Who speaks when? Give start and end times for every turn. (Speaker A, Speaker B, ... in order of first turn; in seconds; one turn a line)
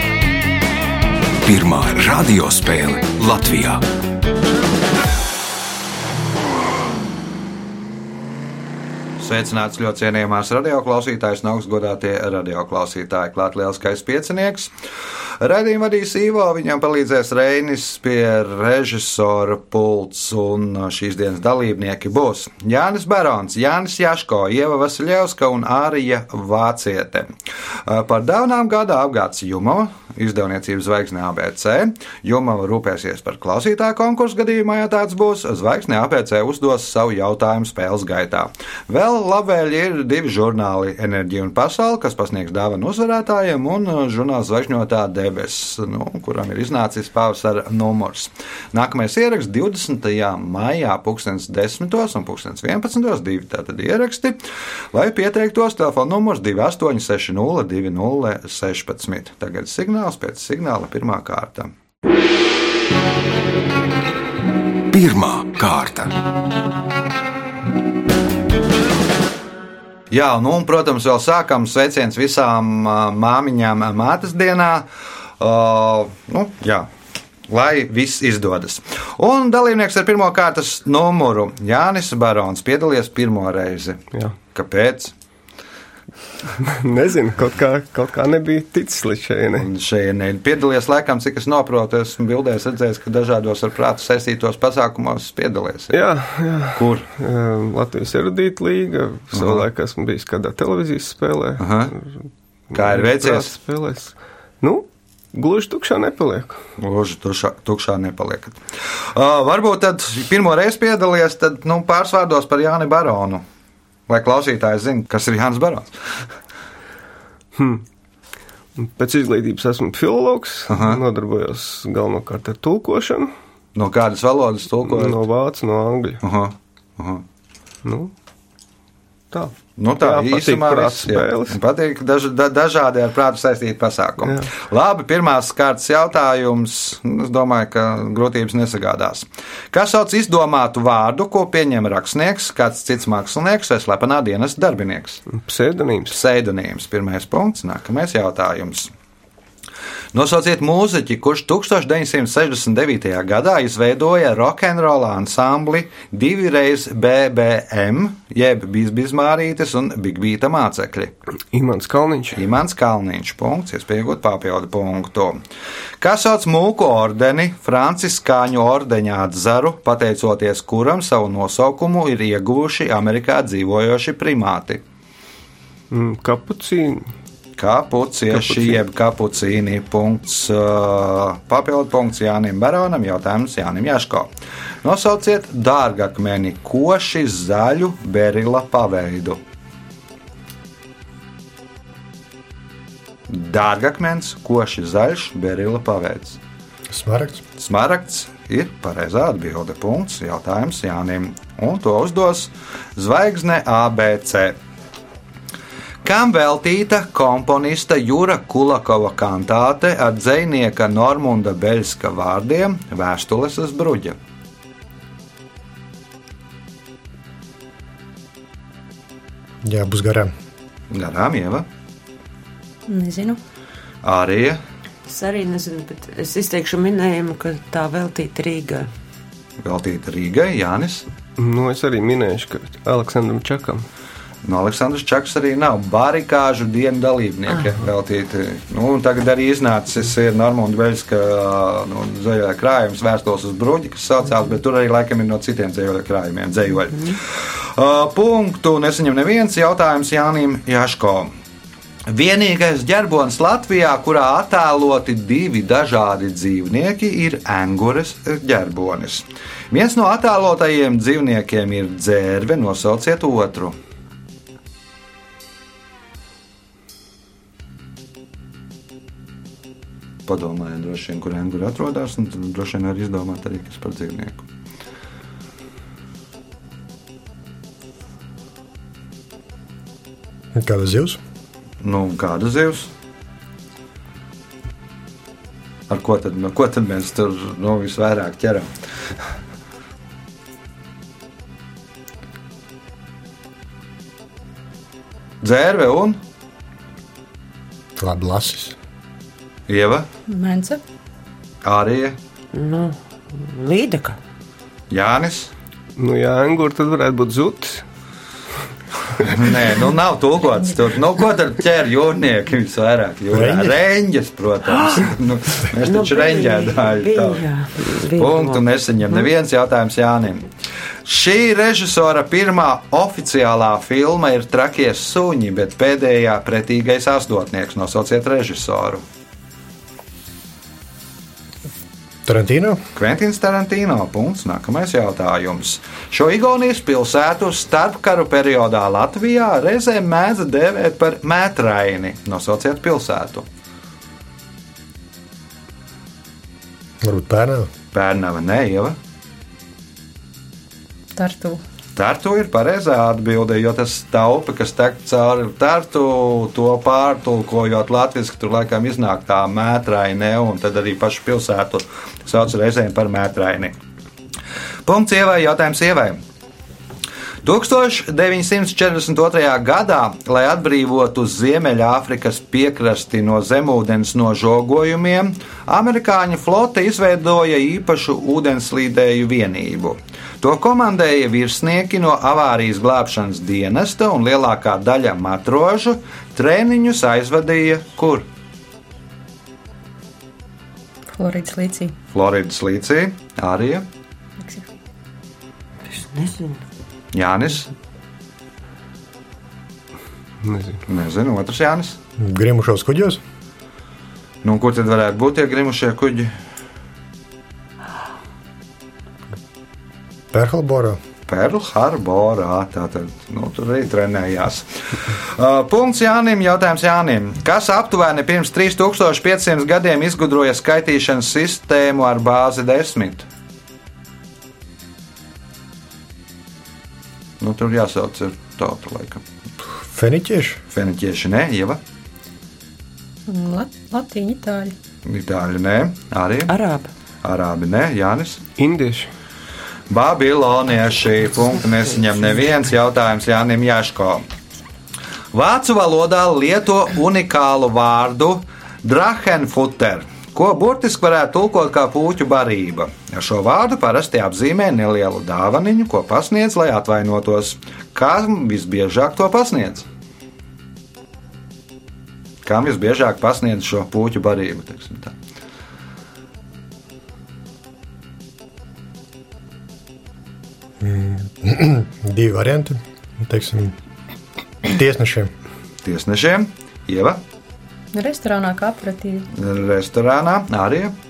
Speaker A: 1.4-3.8
Speaker B: 9.2-14.7
Speaker B: 15.4-27.3
Speaker B: 27.9-54.4
Speaker B: 54.9-61.7
Speaker A: 64.9-66.1
Speaker B: 70.1-74.9
Speaker B: 75.4-76.9
Speaker B: 77.5-85.1
Speaker C: 86.6-89.7
Speaker B: 89.6-96.0
Speaker C: 95.9-106.6
Speaker B: 96.8-97.1
Speaker B: 99.3-99.7
Speaker B: 101.6-101.9
Speaker B: 102.7-103.5
Speaker B: 106.8-108.6
Speaker B: 109.1-113.4
Speaker B: 114.1-115.9
Speaker C: 117.5-117.8
Speaker C: 118.8-123.3
Speaker B: 120.7-121.0
Speaker B: 123.8-125.2
Speaker C: 124.9-126.2
Speaker B: 126.2-127.2
Speaker C: 127.8-128.1
Speaker C: 129.3-131.6
Speaker B: 129.8-145.2
Speaker C: 134.2-134.5
Speaker C: 145.3-146.2
Speaker B: 146.1-148.9
Speaker B: 150.1-161.1
Speaker C: 161.5-162.4
Speaker B: 162.4-165.4
Speaker B: 166.0-174.8
Speaker C: 175.9-177.1
Speaker B: 177.6-184.3
Speaker C: 178.3-178.8
Speaker B: 184.8-189.4
Speaker B: 193.3-196.4
Speaker D: 196.9-197.4
Speaker B: 197.6-204.6
Speaker B: 206.0-214.2
Speaker D: 219.6-220.3
Speaker B: 220.9-221.7
Speaker E: 222.9-223.4
Speaker B: 224.0-224.6
Speaker F: 225.1-228.9
Speaker B: 229.6-231.1
Speaker C: 231.4-233.9
Speaker B: 234.4-251.3
Speaker B: 252.1-263.8
Speaker B: 270.3-274.4
Speaker D: 280.5-281.2
Speaker B: 281.8-282.9
Speaker B: 285.9-288.7
Speaker B: 295.4-296.2
Speaker D: 298.0-298.8
Speaker B: 299.7-300.1
Speaker E: 300.3-300.8
Speaker B: 301.6-302.2
Speaker F: 302.5-304.2
Speaker B: 304.9-305.5
Speaker C: 306.0-307.8
Speaker B: 309.2-317.4
Speaker D: 313.3-313.7
Speaker F: 315.7-319.2
Speaker B: 318.2-320.5
Speaker B: 321.1-329.0
Speaker D: 332.2-332.8
Speaker B: 333.0-343.5
Speaker D: 347.0-347.7
Speaker B: 347.9-349.0
Speaker E: 351.2-351.6
Speaker B: 352.0-363.7
Speaker B: 364.9-366.2
Speaker B: 367.4-388.3
Speaker E: 391.1-392.0
Speaker B: 392.1-393.9
Speaker E: 394.4-394.7
Speaker F: 395.9-396.6
Speaker B: 397.1-397.7
Speaker C: 400.4-400.8
Speaker B: 400.9-402.0
Speaker D: 402.2-403.2
Speaker B: 404.4-406.3
Speaker D: 410.3-411.0
Speaker B: 411.3-423.3
Speaker B: 427.4-429.2
Speaker D: 429.9-430.6
Speaker B: 430.7-431.8
Speaker E: 433.3-434.7
Speaker B: 435.1-436.5
Speaker F: 436.5-436.9
Speaker B: 437.2-438.4
Speaker C: 438.6-439.1
Speaker B: 439.9-444.2
Speaker B: 445.3-459.9
Speaker B: 462.4-465.1
Speaker D: 470.8-473.8
Speaker D: 474.6-475.3
Speaker B: 475.8-477.2
Speaker E: 477.9-479.3
Speaker B: 479.3-480.9